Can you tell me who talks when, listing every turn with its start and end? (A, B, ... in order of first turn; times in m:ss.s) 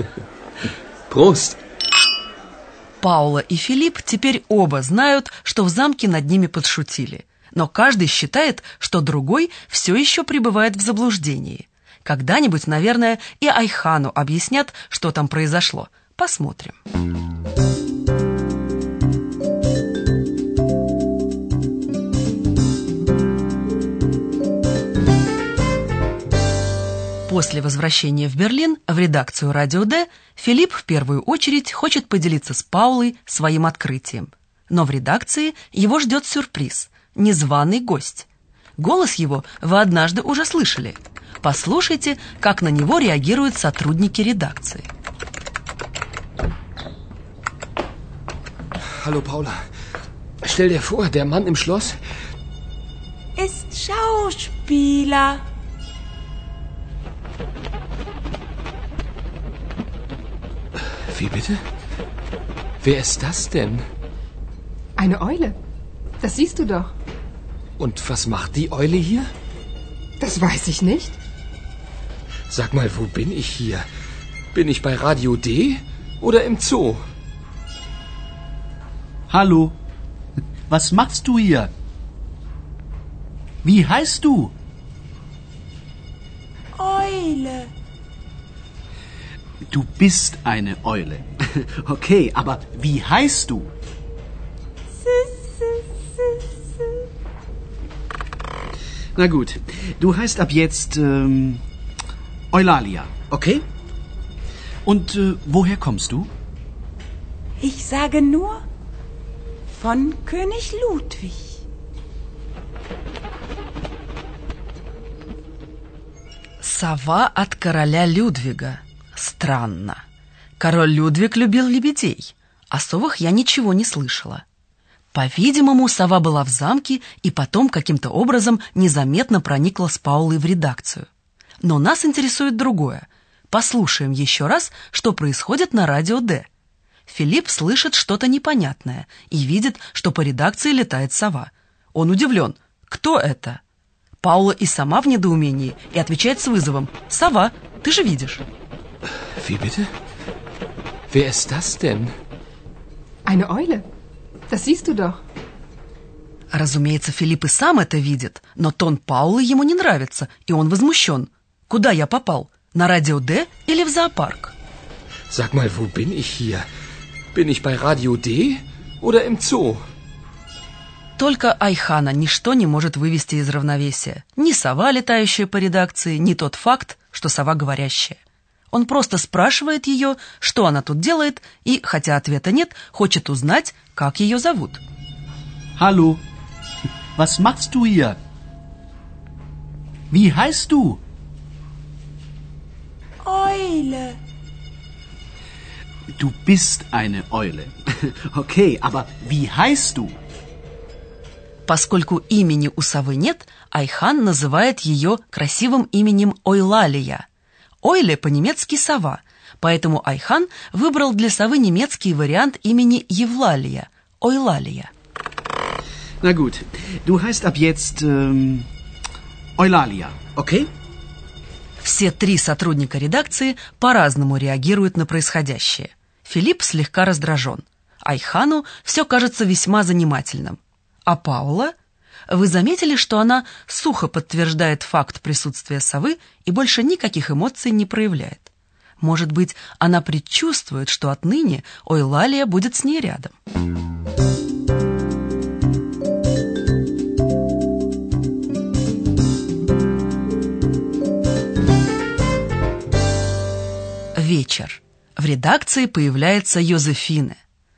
0:01.1-0:01.6 A
0:03.0-0:16.8 B
0:27.3-0:44.9 B
0:49.0-0:49.6 A
0:50.4-0:52.0 A
0:53.4-0:55.4 C
1:01.1-1:01.6 A
1:02.8-1:03.8 A
1:05.0-1:05.6 D
1:06.2-1:06.9 D
1:07.8-1:09.3 A
1:10.2-1:11.2 D
1:12.5-1:13.9 A
1:14.5-1:17.0 A
1:19.3-1:19.8 E
1:20.7-1:21.7 E
1:23.6-1:24.5 E
1:26.8-1:27.7 C
1:29.7-1:33.7 E
1:35.0-1:37.0 C
1:39.2-1:41.6 E
1:42.5-1:43.6 E
1:44.9-1:46.3 E
1:47.6-1:48.6 C
1:49.8-1:51.5 C
1:56.6-2:00.0 B
2:00.6-2:04.4 B
2:05.1-2:11.1 B
2:11.6-2:16.5 B
2:17.1-2:23.6 B
2:24.2-2:28.4 B
2:29.4-2:29.9 A
2:31.1-2:32.1 A
2:33.2-2:33.9 D
2:34.5-2:35.2 D
2:36.5-2:44.6 B
2:45.3-2:46.7 A
2:47.3-2:49.8 A
2:51.2-2:58.2 B
2:58.7-3:04.8 B
3:05.8-3:06.2 E
3:07.2-3:08.2 E
3:10.1-3:11.0 E
3:13.2-3:14.2 C
3:16.2-3:20.2 E
3:21.7-3:27.3 B
3:27.8-3:34.9 B
3:36.2-3:38.7 E
3:39.6-3:40.7 E
3:41.8-3:51.7 B
3:52.3-4:03.3 B
4:14.2-4:17.4 B